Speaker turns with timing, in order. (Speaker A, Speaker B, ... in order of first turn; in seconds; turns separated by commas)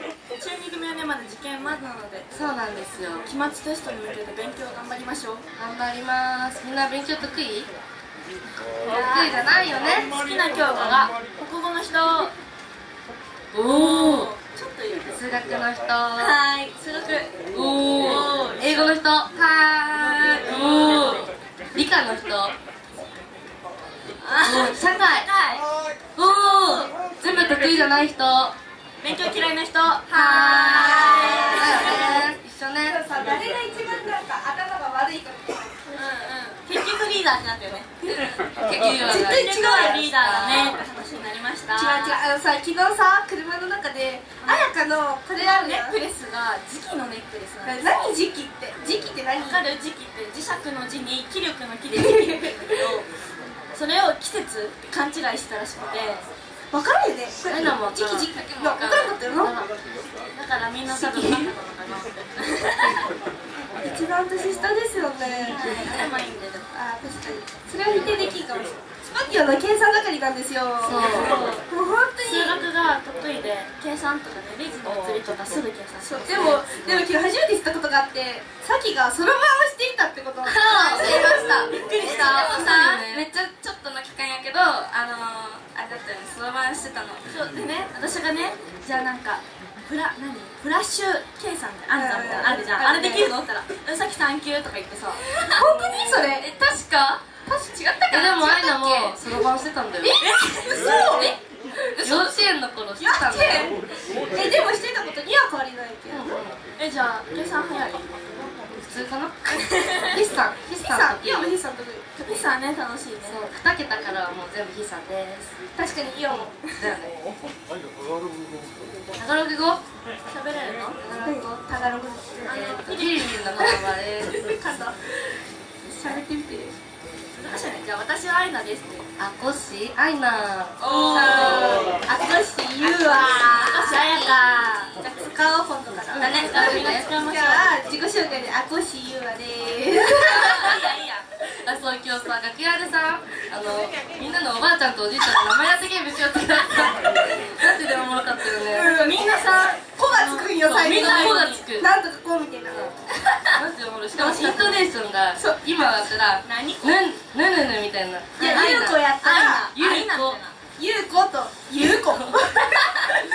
Speaker A: 0.4-2.3, Speaker B: 2.3-3.2, Speaker A: 3.2-5.5, Speaker B: 5.6-7.7, Speaker A: 8.9-12.3, Speaker B: 8.9-10.1, Speaker B: 13.5-14.3, Speaker A: 13.6-15.1, Speaker B: 15.1-16.4, Speaker C: 16.2-17.3, Speaker B: 17.5-22.5, Speaker A: 18.0-18.9, Speaker A: 20.1-21.2, Speaker A: 24.2-25.6, Speaker B: 24.4-25.3, Speaker B: 26.2-28.5, Speaker A: 29.0-32.2, Speaker D: 30.1-32.3, Speaker B: 30.1-33.0, Speaker D: 32.8-36.2, Speaker A: 35.9-37.9, Speaker B: 38.6-40.8, Speaker A: 39.0-42.2, Speaker D: 39.1-40.7, Speaker D: 41.7-46.0, Speaker A: 45.4-48.0, Speaker D: 47.6-49.6, Speaker A: 49.4-53.0, Speaker D: 51.9-52.9, Speaker A: 53.7-56.2, Speaker D: 56.7-59.6, Speaker B: 57.5-59.7, Speaker A: 60.4-63.1, Speaker D: 60.9-61.5, Speaker D: 63.8-65.6, Speaker A: 65.2-66.7, Speaker D: 66.7-72.6, Speaker B: 70.8-71.4, Speaker A: 71.0-71.6, Speaker A: 72.2-76.6, Speaker D: 76.0-82.4, Speaker C: 80.5-87.2, Speaker B: 80.9-81.3, Speaker A: 80.9-81.2, Speaker A: 81.8-82.8, Speaker B: 81.9-83.3, Speaker A: 87.3-95.2, Speaker D: 91.9-93.4, Speaker C: 95.3-99.2, Speaker D: 95.5-96.5, Speaker B: 98.1-100.2, Speaker A: 100.2-101.3, Speaker D: 100.6-101.4, Speaker C: 101.8-102.4, Speaker B: 102.0-103.7, Speaker D: 103.0-103.8, Speaker D: 104.3-106.4, Speaker B: 106.1-106.5, Speaker A: 106.8-108.1, Speaker B: 108.8-111.5, Speaker A: 109.6-110.1, Speaker D: 110.7-112.1, Speaker A: 112.2-113.4, Speaker B: 113.2-115.5, Speaker D: 115.8-116.6, Speaker B: 116.6-117.1, Speaker B: 119.2-119.8, Speaker A: 120.3-121.0, Speaker B: 121.0-121.6, Speaker D: 121.2-122.6, Speaker A: 122.5-123.8, Speaker B: 122.5-124.3, Speaker D: 123.6-125.0, Speaker D: 125.9-126.7, Speaker A: 127.3-129.0, Speaker B: 129.2-131.3, Speaker A: 130.8-131.9, Speaker C: 130.8-131.8, Speaker D: 131.1-134.0, Speaker A: 133.3-134.9, Speaker B: 133.9-134.4, Speaker D: 135.0-140.8, Speaker C: 136.2-136.9, Speaker B: 136.2-137.1, Speaker A: 136.2-137.7, Speaker A: 140.4-141.2, Speaker B: 140.4-140.8, Speaker B: 141.6-148.9, Speaker D: 148.7-152.8, Speaker A: 148.7-151.6, Speaker B: 150.6-151.9, Speaker B: 153.6-159.0, Speaker D: 154.2-154.8, Speaker D: 155.3-155.9, Speaker A: 156.4-157.1, Speaker D: 158.4-159.7, Speaker A: 158.4-160.5, Speaker B: 159.7-160.4, Speaker D: 160.8-163.2, Speaker B: 162.1-162.4